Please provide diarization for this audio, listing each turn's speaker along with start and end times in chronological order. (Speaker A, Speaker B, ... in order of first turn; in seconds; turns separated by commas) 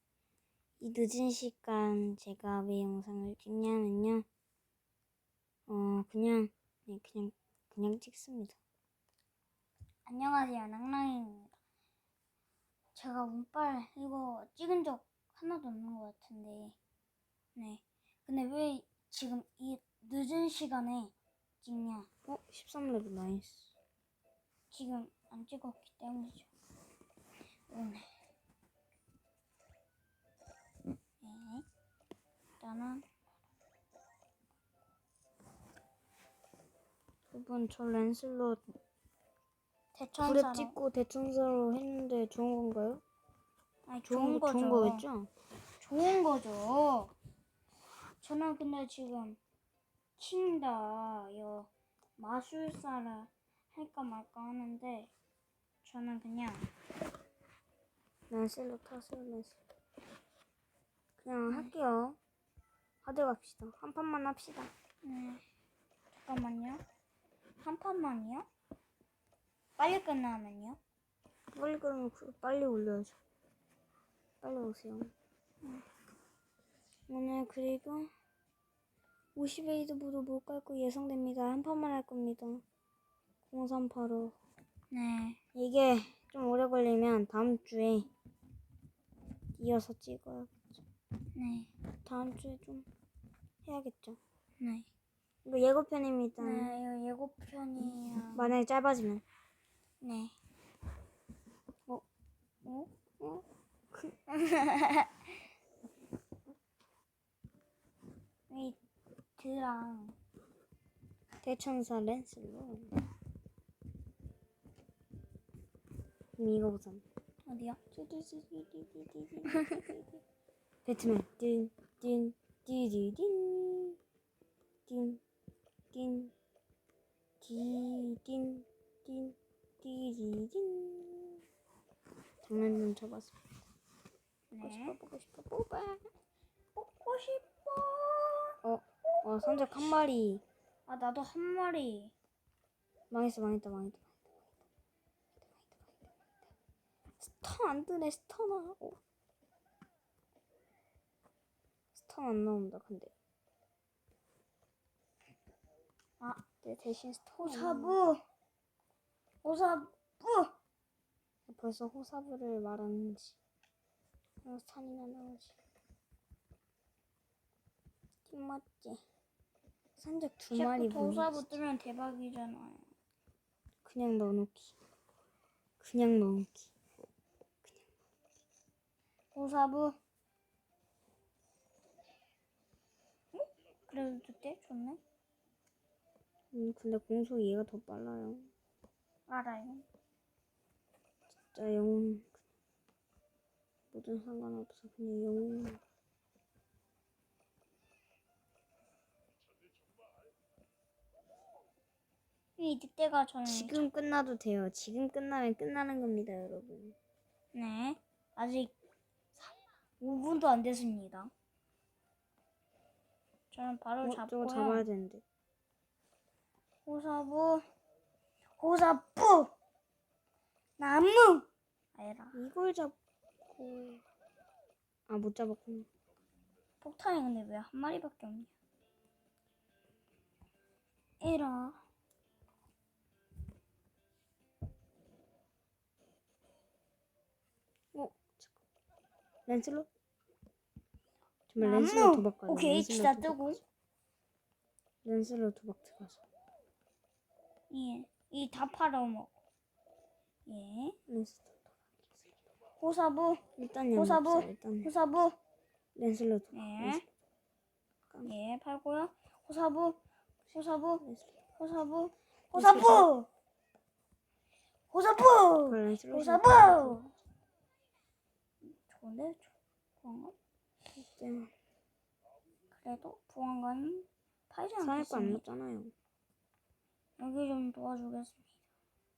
Speaker A: 0.8-4.3, Speaker A: 5.7-8.6, Speaker B: 10.1-11.5, Speaker B: 12.9-16.8, Speaker B: 17.6-22.1, Speaker A: 22.3-23.7, Speaker B: 24.7-26.5, Speaker B: 27.7-28.1, Speaker B: 31.2-31.6, Speaker B: 32.6-33.0, Speaker A: 37.3-38.6, Speaker B: 40.0-40.8, Speaker A: 40.2-43.0, Speaker B: 43.9-45.0, Speaker A: 44.1-45.3, Speaker B: 45.8-47.1, Speaker B: 48.2-49.4, Speaker B: 50.2-55.1, Speaker B: 55.8-56.7, Speaker A: 58.3-59.6, Speaker A: 61.2-62.2, Speaker A: 63.0-64.7, Speaker B: 65.0-65.4, Speaker B: 66.2-66.8, Speaker B: 67.6-68.5, Speaker B: 69.8-70.8, Speaker A: 71.5-73.2, Speaker A: 74.4-75.1, Speaker A: 77.1-78.1, Speaker A: 79.3-82.6, Speaker A: 83.5-84.4, Speaker B: 84.9-85.4, Speaker A: 85.5-88.1, Speaker A: 89.6-90.8, Speaker B: 91.4-91.7, Speaker A: 92.0-92.9, Speaker A: 93.7-94.2, Speaker B: 94.6-94.9, Speaker A: 95.5-96.7, Speaker B: 96.4-98.5, Speaker A: 98.3-99.2, Speaker B: 100.0-100.3, Speaker B: 102.6-102.9, Speaker B: 104.3-105.1, Speaker B: 108.5-108.8, Speaker B: 109.4-110.1, Speaker A: 111.4-112.9, Speaker A: 116.4-117.0, Speaker B: 117.5-117.8, Speaker A: 117.9-120.2, Speaker A: 120.8-124.0, Speaker A: 124.9-125.2, Speaker A: 125.9-126.3, Speaker A: 127.4-131.4, Speaker A: 132.4-133.5, Speaker B: 134.5-134.9, Speaker A: 134.6-136.0, Speaker B: 136.8-138.6, Speaker A: 138.6-140.4, Speaker B: 139.2-139.9, Speaker B: 140.9-142.1, Speaker A: 143.1-144.4, Speaker A: 145.4-145.9, Speaker A: 147.2-149.0, Speaker A: 151.9-153.1, Speaker A: 156.6-158.0, Speaker B: 157.4-158.2, Speaker B: 159.4-160.5, Speaker A: 161.5-163.4, Speaker A: 164.4-165.6, Speaker A: 168.3-169.0, Speaker A: 170.0-171.6, Speaker B: 170.5-172.9, Speaker A: 173.8-174.8, Speaker A: 175.8-176.7, Speaker B: 179.3-180.0, Speaker B: 183.3-185.0, Speaker A: 186.5-188.5, Speaker B: 189.3-189.8, Speaker A: 191.5-192.3, Speaker A: 193.9-195.8, Speaker B: 202.6-203.8, Speaker A: 203.4-206.9, Speaker B: 207.5-208.7, Speaker B: 210.0-211.3, Speaker B: 213.5-214.9, Speaker A: 214.0-215.2, Speaker B: 216.9-217.7, Speaker B: 218.6-219.5, Speaker B: 220.8-222.3, Speaker A: 222.3-223.0, Speaker A: 223.5-224.0, Speaker A: 225.1-225.9, Speaker B: 226.8-228.5, Speaker B: 231.2-231.8, Speaker A: 237.9-238.5, Speaker A: 239.5-239.9, Speaker A: 241.5-243.6, Speaker B: 241.6-243.6, Speaker A: 245.0-246.2, Speaker B: 247.7-249.3, Speaker B: 250.5-251.0, Speaker A: 251.1-251.7, Speaker B: 252.8-253.4, Speaker A: 253.6-254.9, Speaker B: 253.9-255.4, Speaker A: 256.0-257.0, Speaker B: 256.5-257.0, Speaker B: 258.2-260.0, Speaker B: 260.5-261.0, Speaker B: 261.6-263.3, Speaker A: 262.5-263.1, Speaker B: 264.9-267.1, Speaker A: 265.7-267.0, Speaker B: 268.7-270.4, Speaker A: 271.0-271.5, Speaker B: 272.8-275.4, Speaker A: 274.8-275.9, Speaker B: 277.2-278.5